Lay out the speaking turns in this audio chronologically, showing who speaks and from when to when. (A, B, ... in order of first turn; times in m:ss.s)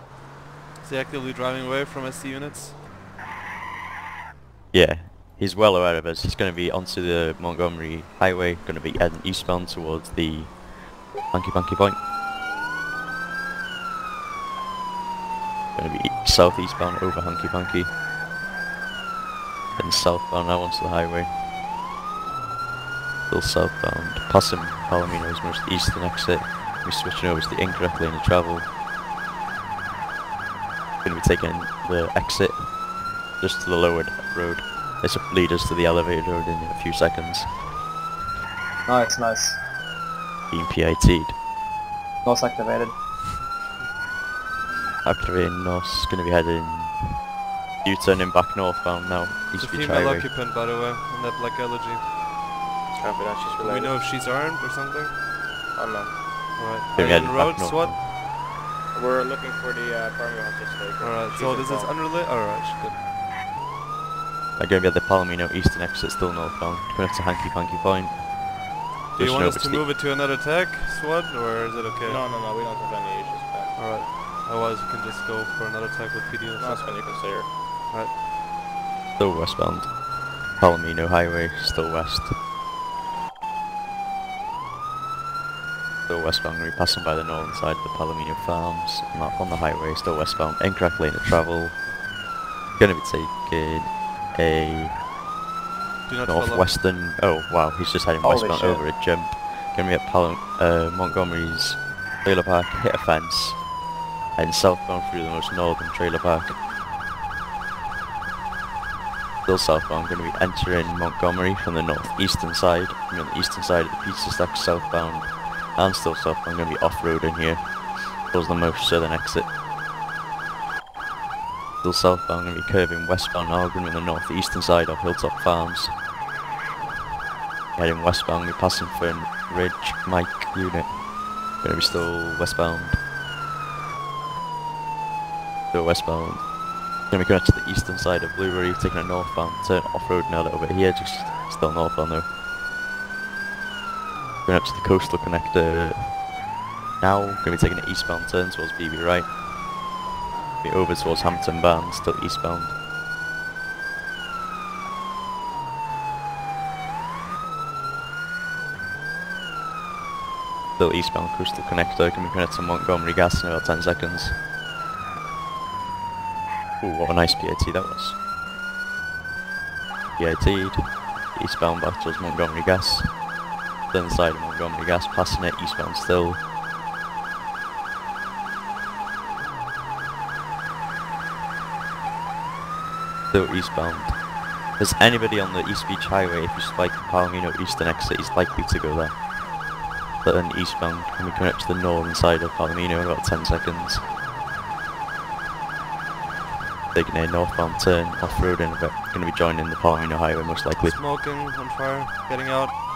0:00.8-0:02.8 A
0:04.7-0:12.0 B
0:15.8-0:18.0 B
0:19.8-0:21.4 B
0:23.3-0:28.7 B
0:31.0-0:37.6 B
0:38.9-0:39.6 C
0:40.5-0:41.4 B
0:42.2-0:43.0 C
0:45.0-0:47.3 B
0:47.8-0:50.3 B
0:49.6-0:52.1 A
0:53.0-0:54.0 D
0:53.6-0:55.2 A
0:55.7-0:56.2 D
0:56.6-0:58.1 A
0:57.0-0:58.0 B
0:58.9-1:02.0 D
1:01.0-1:03.0 A
1:04.6-1:08.3 B
1:09.1-1:12.2 A
1:09.2-1:09.8 B
1:12.1-1:14.2 D
1:13.8-1:17.3 A
1:16.6-1:17.5 D
1:17.9-1:18.2 A
1:19.2-1:22.4 B
1:26.1-1:32.0 B
1:32.8-1:35.0 B
1:36.1-1:36.8 A
1:36.2-1:43.7 B
1:38.2-1:38.8 C
1:44.4-1:46.6 B
1:49.4-1:59.5 B
2:01.8-2:06.0 B
2:07.8-2:13.0 B
2:15.7-2:22.3 B
2:24.4-2:26.2 B
2:27.0-2:29.4 B
2:30.6-2:32.8 B
2:40.8-2:44.4 B
2:46.8-2:48.2 B
2:50.2-2:53.2 B
2:53.9-2:56.4 B
3:03.3-3:09.3 B
3:10.2-3:14.1 B
3:16.9-3:21.0 B
3:20.8-3:22.8 A